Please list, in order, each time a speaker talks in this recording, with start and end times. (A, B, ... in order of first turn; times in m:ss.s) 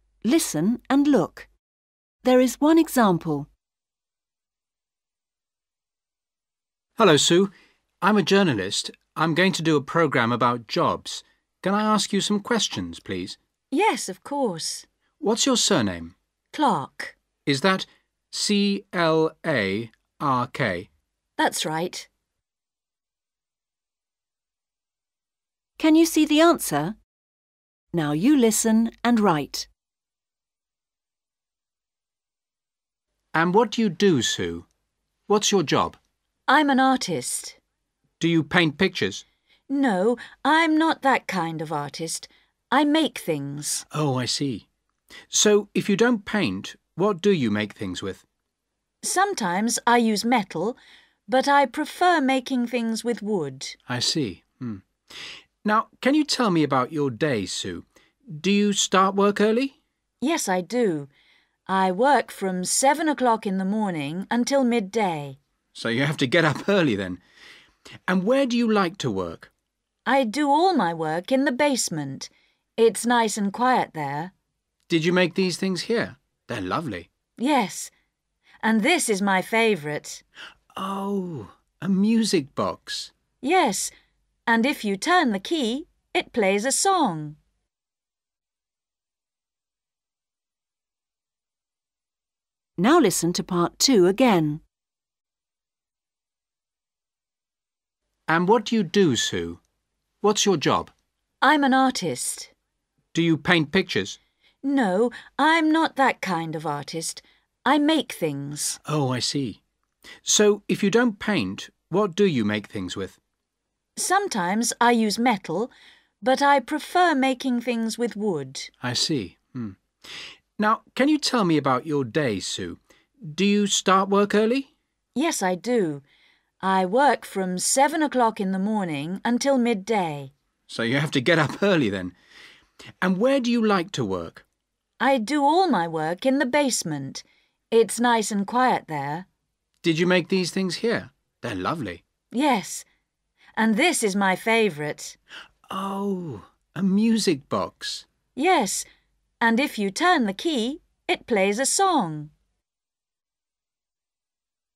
0:00.2-0:01.5 A
0:02.2-0:03.5 A
0:07.0-0:13.4 B
0:13.7-0:14.9 C
0:15.2-0:16.2 B
0:16.5-0:17.2 C
0:17.5-0:20.9 B
0:21.4-0:22.1 C
0:25.8-0:27.0 A
0:27.9-0:29.7 A
0:33.3-0:34.7 B
0:35.3-0:36.0 B
0:36.5-0:37.6 C
0:38.2-0:39.2 B
0:39.7-0:43.8 C
0:43.9-0:44.7 B
0:45.3-0:48.2 B
0:49.0-0:53.8 C
0:53.9-0:54.8 B
0:55.6-0:59.8 B
1:00.2-1:01.1 C
1:01.7-1:05.4 C
1:05.8-1:07.2 B
1:08.1-1:09.5 B
1:10.1-1:14.3 C
1:14.9-1:17.1 B
1:17.4-1:17.9 C
1:18.6-1:20.2 C
1:20.8-1:23.1 B
1:23.4-1:23.9 C
1:24.5-1:27.4 C
1:32.8-1:34.6 A
1:38.3-1:39.6 B
1:40.2-1:40.9 B
1:41.4-1:42.5 C
1:43.1-1:44.2 B
1:44.6-1:48.8 C
1:48.8-1:49.6 B
1:50.2-1:53.2 B
1:54.0-1:58.7 C
1:58.8-1:59.8 B
2:00.6-2:04.7 B
2:05.2-2:06.0 C
2:06.6-2:10.3 C
2:10.7-2:12.2 B
2:13.0-2:14.4 B
2:15.0-2:19.3 C
2:19.8-2:22.0 B
2:22.3-2:22.8 C
2:23.6-2:25.2 C
2:25.7-2:28.0 B
2:28.4-2:28.9 C
2:29.4-2:32.3 C